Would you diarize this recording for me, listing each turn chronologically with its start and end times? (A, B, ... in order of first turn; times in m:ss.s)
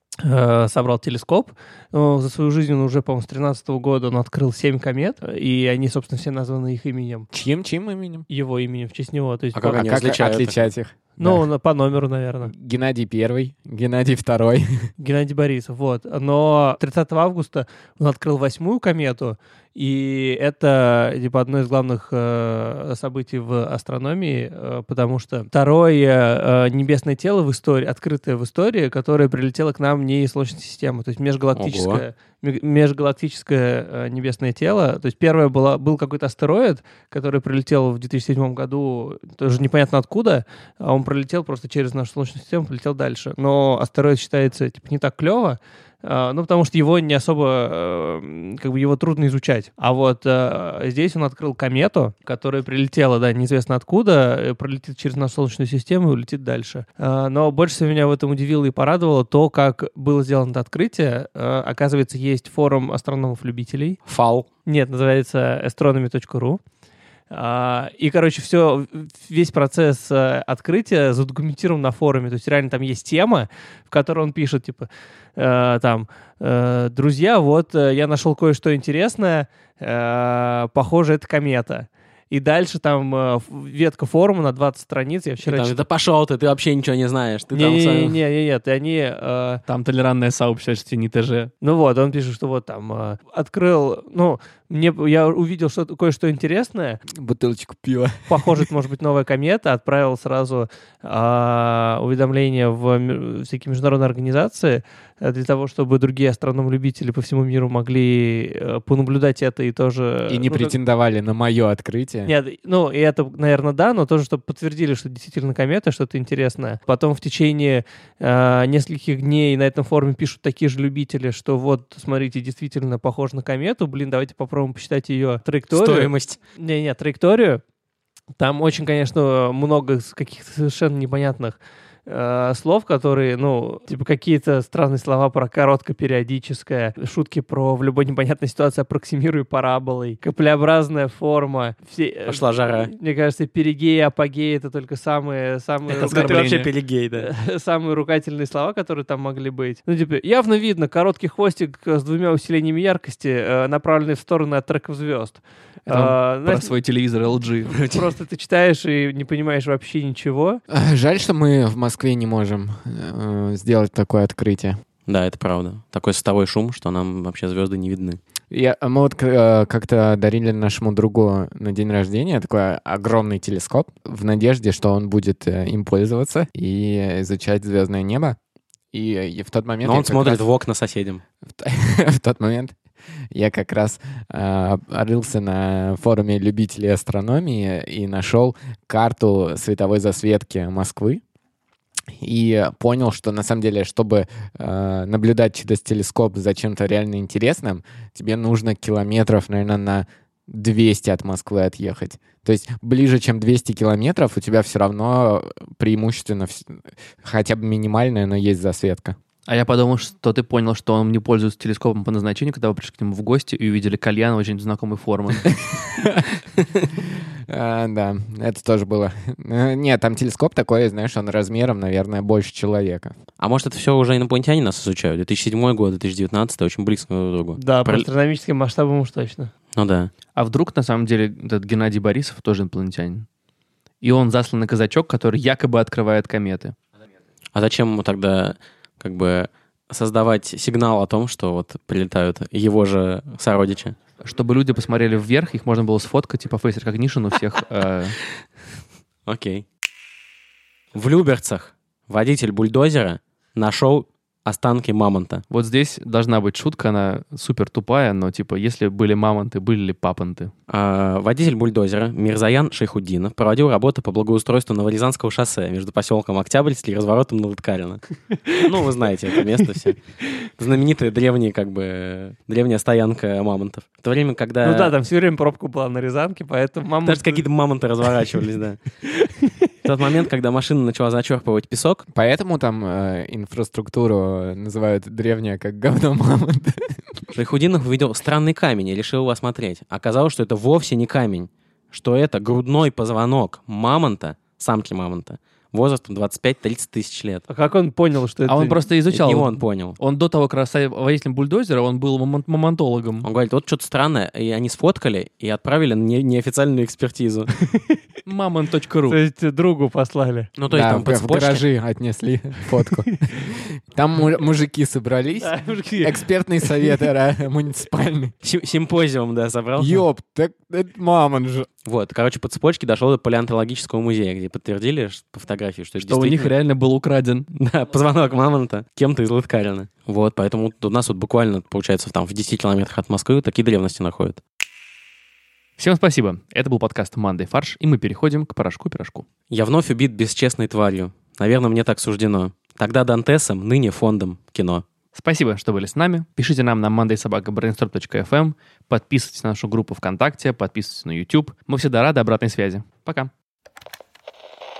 0:00.2-0:07.3 A
0:07.3-0:08.3 B
0:08.3-0:10.2 A
0:09.5-0:10.6 C
0:09.7-0:11.5 B
0:11.2-0:12.5 A
0:12.4-0:14.9 B
0:15.0-1:04.0 A
0:31.6-0:32.0 C
1:04.1-1:04.5 C
1:04.7-1:06.6 A
1:07.3-1:25.8 A
1:25.4-1:28.2 C
1:27.6-1:29.6 A
1:29.7-1:31.5 D
1:31.6-1:37.0 A
1:37.1-1:38.7 B
1:38.3-1:50.7 A
1:50.3-1:52.3 B
1:52.3-2:07.6 A
2:05.7-2:06.4 C
2:08.4-2:26.6 A
2:22.3-2:22.9 C
2:25.9-2:27.3 C
2:26.0-2:26.7 D
2:27.2-2:36.7 A
2:35.9-2:37.7 D
2:37.7-2:38.1 C
2:37.9-2:40.6 A
2:40.7-2:44.8 B
2:45.1-2:48.2 C
2:48.5-2:58.4 B
2:58.9-3:00.4 B
2:59.8-3:01.2 C
3:01.5-3:02.8 B
3:03.3-3:11.2 B
3:12.2-3:29.2 B
3:29.5-3:35.6 D
3:35.5-3:36.2 B
3:36.8-3:43.2 B
3:43.4-3:48.1 C
3:47.6-3:49.5 A
3:49.8-3:50.1 C
3:50.4-3:53.3 D
3:54.0-3:56.8 D
3:57.6-4:04.0 C
4:04.2-4:08.2 D
4:09.3-4:09.6 C
4:10.9-4:15.4 C
4:15.5-4:20.5 D
4:20.7-4:28.0 C
4:28.5-4:30.0 C
4:30.6-4:35.0 C
4:34.6-4:37.4 A
4:37.0-4:38.8 C
4:39.2-4:39.5 A
4:39.8-4:42.0 C
4:42.1-4:47.3 B
4:47.4-4:57.4 C
4:57.5-4:58.9 A
4:58.5-5:03.3 D
4:59.1-5:00.0 C
5:03.2-5:07.6 C
5:08.3-5:09.2 D
5:09.1-5:10.5 A
5:10.6-5:11.6 C
5:10.7-5:18.3 B
5:15.4-5:16.2 A
5:18.4-5:20.0 C
5:19.8-5:21.7 B
5:21.8-5:26.6 C
5:26.0-5:27.5 D
5:27.6-5:34.4 C
5:35.8-5:39.2 D
5:39.5-5:44.8 C
5:45.2-5:53.3 D